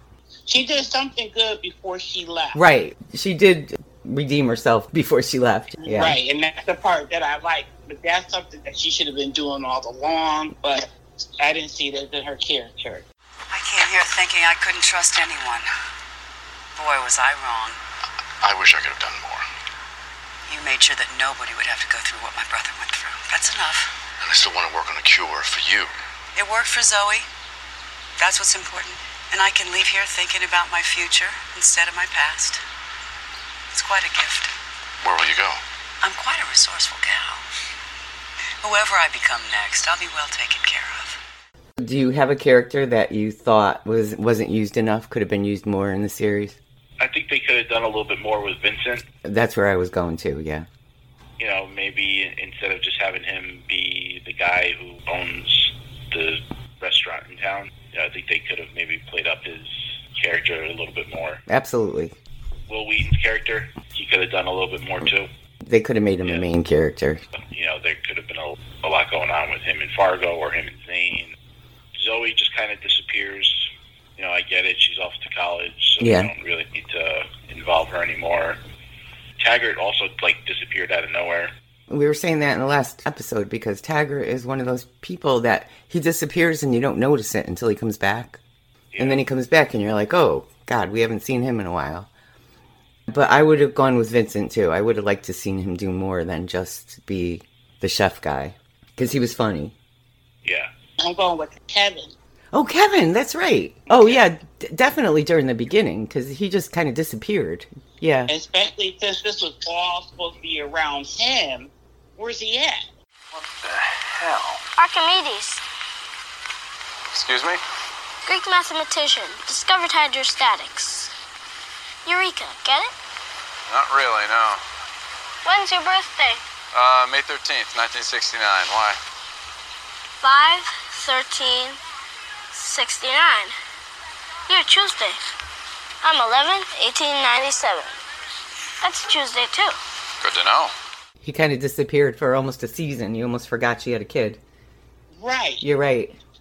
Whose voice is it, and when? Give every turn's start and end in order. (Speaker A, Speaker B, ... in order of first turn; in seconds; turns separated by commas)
Speaker A: 0.5-2.6, Speaker B: 2.5-6.2, Speaker A: 5.8-13.0, Speaker C: 13.5-15.7, Speaker C: 16.7-17.8, Speaker D: 18.4-19.4, Speaker C: 20.5-23.9, Speaker D: 24.2-25.8, Speaker C: 26.3-27.3, Speaker C: 28.2-32.6, Speaker C: 33.7-34.5, Speaker D: 35.0-35.6, Speaker C: 36.0-37.4, Speaker C: 38.6-41.2, Speaker B: 41.8-46.6, Speaker E: 47.0-49.0, Speaker B: 49.2-50.6, Speaker E: 51.4-61.4, Speaker B: 61.5-62.1, Speaker E: 62.7-65.3, Speaker B: 65.6-67.2, Speaker E: 67.4-71.3, Speaker E: 71.9-78.6, Speaker B: 76.0-76.3, Speaker E: 79.4-81.5, Speaker B: 81.9-88.4, Speaker E: 88.9-89.2, Speaker B: 89.0-92.1, Speaker B: 93.1-99.7, Speaker E: 100.4-100.7, Speaker A: 101.0-102.1, Speaker B: 102.5-108.3, Speaker A: 103.9-104.2, Speaker A: 108.3-112.8, Speaker F: 114.8-115.6, Speaker G: 117.1-117.6, Speaker F: 118.2-121.1, Speaker F: 122.0-122.9, Speaker G: 123.7-124.6, Speaker F: 125.4-126.4, Speaker G: 126.7-129.0, Speaker F: 130.2-131.8, Speaker F: 132.5-133.5, Speaker F: 134.5-135.2, Speaker F: 136.0-137.9, Speaker F: 138.8-139.8, Speaker G: 140.2-140.7, Speaker B: 141.2-144.4, Speaker A: 145.2-145.6, Speaker B: 145.6-146.2